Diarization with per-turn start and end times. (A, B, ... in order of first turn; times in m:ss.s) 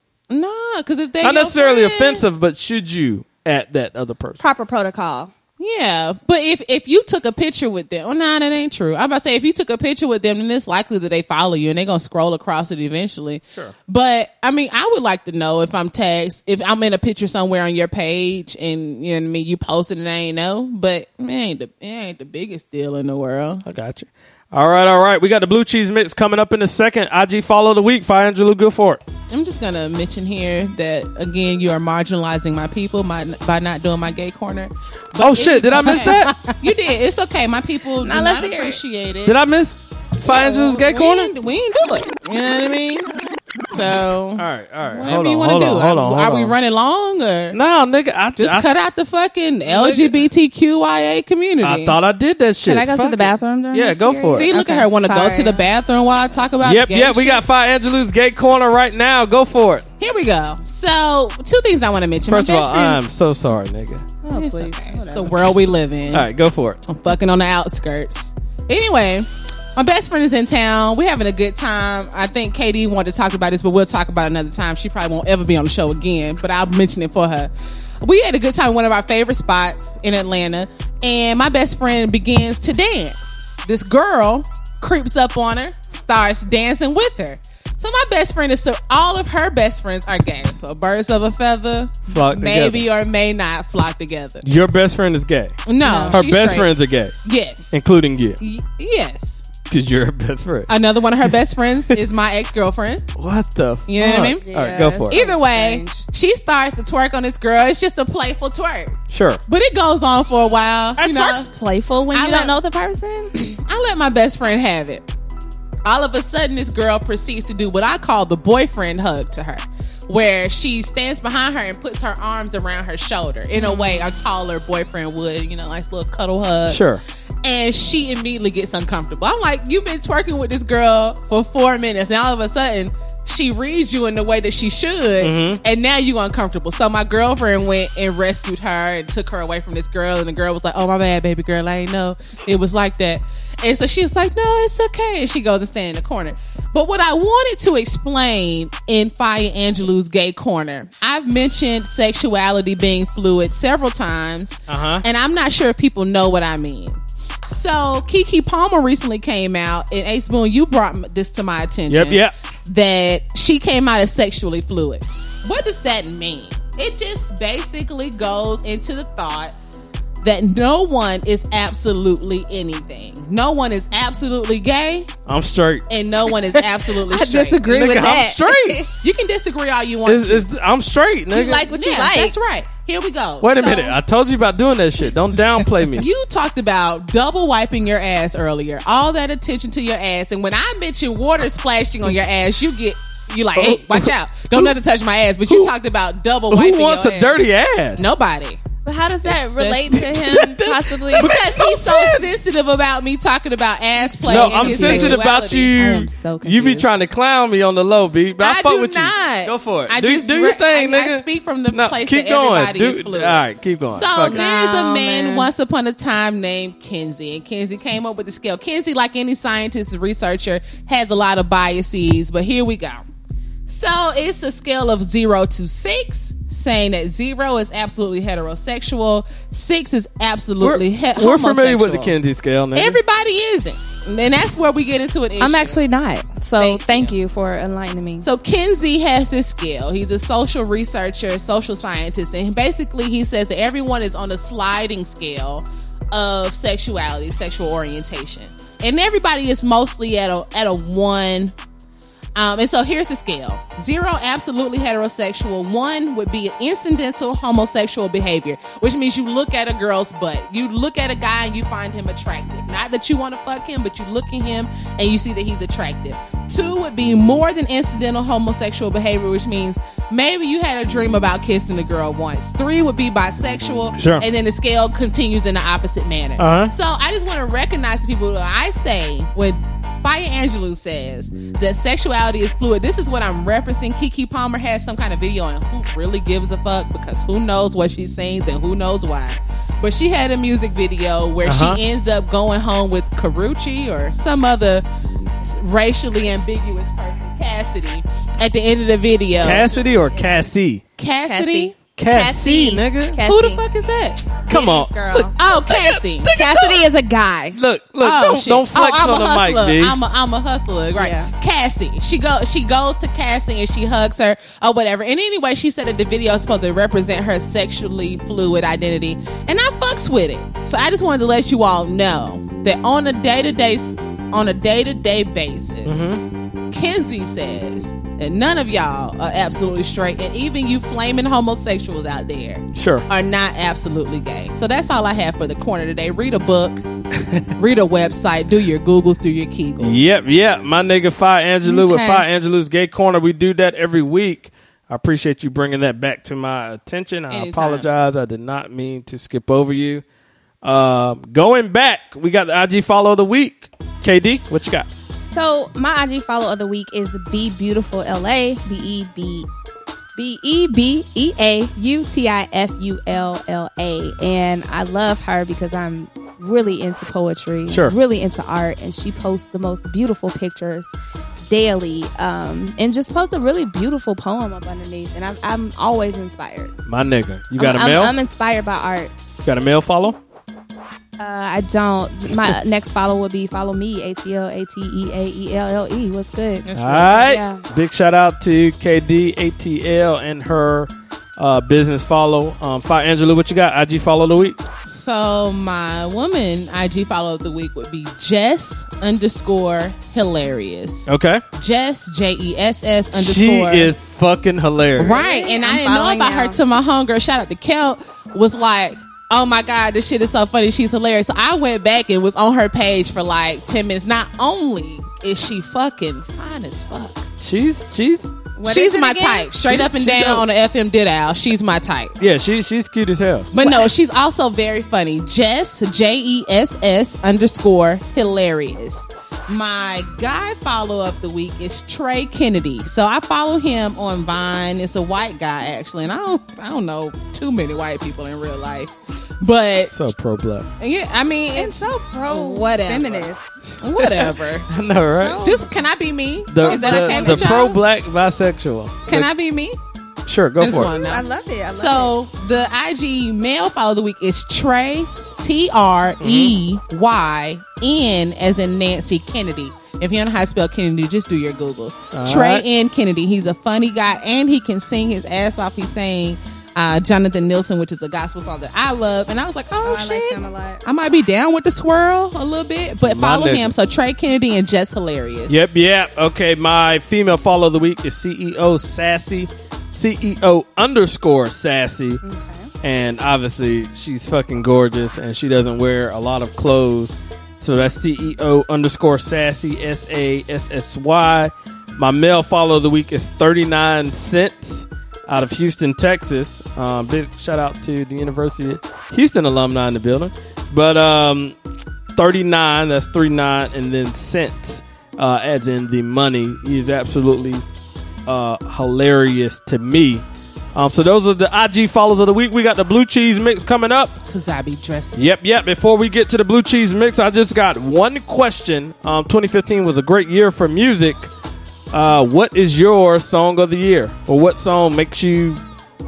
0:00.3-0:02.2 A
0:01.2-0:04.4 B
0:04.4-0:05.3 C
0:05.6-0:23.6 A
0:23.6-0:29.0 B
0:29.3-0:39.4 A
0:35.2-0:36.4 B
0:38.0-0:38.8 C
0:39.2-0:41.3 B
0:40.2-0:43.1 A
0:43.7-0:47.6 A
0:44.4-0:46.5 B
0:47.5-0:48.7 B
0:48.4-0:52.0 A
0:49.7-0:50.2 B
0:51.6-0:54.5 B
0:52.6-0:55.6 C
0:54.3-0:57.4 A
0:56.6-0:59.9 B
1:00.0-1:03.0 A
1:02.3-1:04.1 B
1:04.2-1:05.4 C
1:04.3-1:06.3 A
1:06.1-1:06.8 B
1:06.8-1:34.4 A
1:32.1-1:32.9 B
1:34.4-1:37.1 B
1:35.6-1:37.8 A
1:35.8-1:36.2 C
1:37.7-1:38.4 B
1:38.4-1:39.4 A
1:39.7-1:40.7 B
1:40.7-1:43.0 A
1:43.2-1:45.2 B
1:43.9-1:51.5 A
1:44.0-1:46.0 C
1:49.1-1:49.4 B
1:51.0-1:53.5 C
1:52.1-1:52.5 A
1:53.6-1:55.1 A
1:55.8-2:06.8 A
2:03.6-2:04.0 C
2:06.7-2:07.0 B
2:07.4-2:37.0 A
2:15.2-2:15.6 B
2:34.7-2:35.0 B
2:37.5-2:49.6 A
2:41.9-2:42.3 B
2:50.2-2:55.1 A
2:55.2-2:55.8 B
2:55.9-2:57.6 A
2:57.1-2:58.9 C
2:57.6-2:58.8 B
2:59.0-3:00.4 A
3:00.0-3:01.6 B
3:01.3-3:02.4 C
3:01.6-3:04.0 A
3:03.4-3:06.1 B
3:05.7-3:17.4 A
3:13.6-3:14.7 B
3:16.5-3:18.1 B
3:18.0-3:18.6 A
3:18.8-3:21.4 C
3:19.2-3:20.2 A
3:19.9-3:22.3 B
3:21.1-3:25.9 A
3:24.0-3:26.9 C
3:24.3-3:34.4 B
3:28.4-3:43.1 A
3:34.2-3:35.5 C
3:43.7-3:52.1 A
3:50.6-3:53.0 B
3:52.7-3:55.8 A
3:55.4-3:58.3 C
3:56.6-3:57.1 A
3:58.2-4:11.5 A
4:12.3-4:54.8 A
4:34.0-4:34.2 B
4:36.4-4:36.7 B
4:51.4-4:51.8 B
4:55.4-4:59.7 A
4:59.4-5:00.8 B
5:01.0-5:04.2 A
5:01.2-5:03.6 C
5:02.0-5:03.2 B
5:04.5-5:05.3 C
5:04.5-5:06.8 B
5:05.4-5:06.3 A
5:06.3-5:07.6 C
5:07.5-5:10.0 B
5:08.0-5:26.1 A
5:11.0-5:11.3 C
5:25.8-5:26.2 B
5:26.7-5:36.8 A
5:32.7-5:33.0 B
5:37.2-5:37.5 B
5:37.6-5:40.0 A
5:39.8-5:50.0 B
5:41.6-5:42.2 C
5:47.3-5:47.9 A
5:50.6-5:54.9 B
5:55.3-5:59.5 C
6:00.2-6:10.9 C
6:07.7-6:07.9 B
6:11.5-6:16.7 C
6:16.8-6:18.1 B
6:17.6-6:19.1 C
6:19.4-6:20.2 B
6:21.2-6:27.6 C
6:26.6-6:27.2 A
6:26.7-6:34.6 B
6:34.8-6:43.9 A
6:41.1-6:41.4 B
6:43.1-6:45.2 B
6:45.0-6:57.3 A
6:45.0-6:46.6 C
6:57.4-6:58.3 B
6:58.6-7:00.4 C
6:58.6-7:02.2 A
6:59.7-7:00.0 B
7:02.2-7:03.5 B
7:03.5-7:19.9 A
7:03.6-7:03.9 C
7:19.9-7:20.7 B
7:20.8-7:23.3 A
7:21.5-7:23.4 C
7:23.8-7:24.6 A
7:24.0-7:25.4 B
7:25.1-7:25.7 C
7:25.4-7:27.8 A
7:26.5-7:29.3 B
7:26.6-7:27.7 C
7:29.1-7:29.8 A
7:30.3-7:30.9 B
7:30.6-7:55.7 A
7:30.8-7:32.1 C
7:36.2-7:36.5 B
7:42.1-7:42.6 B
7:49.8-7:50.8 C
7:53.0-7:53.7 B
7:55.5-8:02.2 B
8:02.2-8:02.7 C
8:02.8-8:21.6 B
8:22.1-8:27.6 B
8:28.3-8:30.2 B
8:30.7-8:34.2 B
8:34.3-8:35.2 A
8:35.1-8:41.3 B
8:41.9-8:45.6 B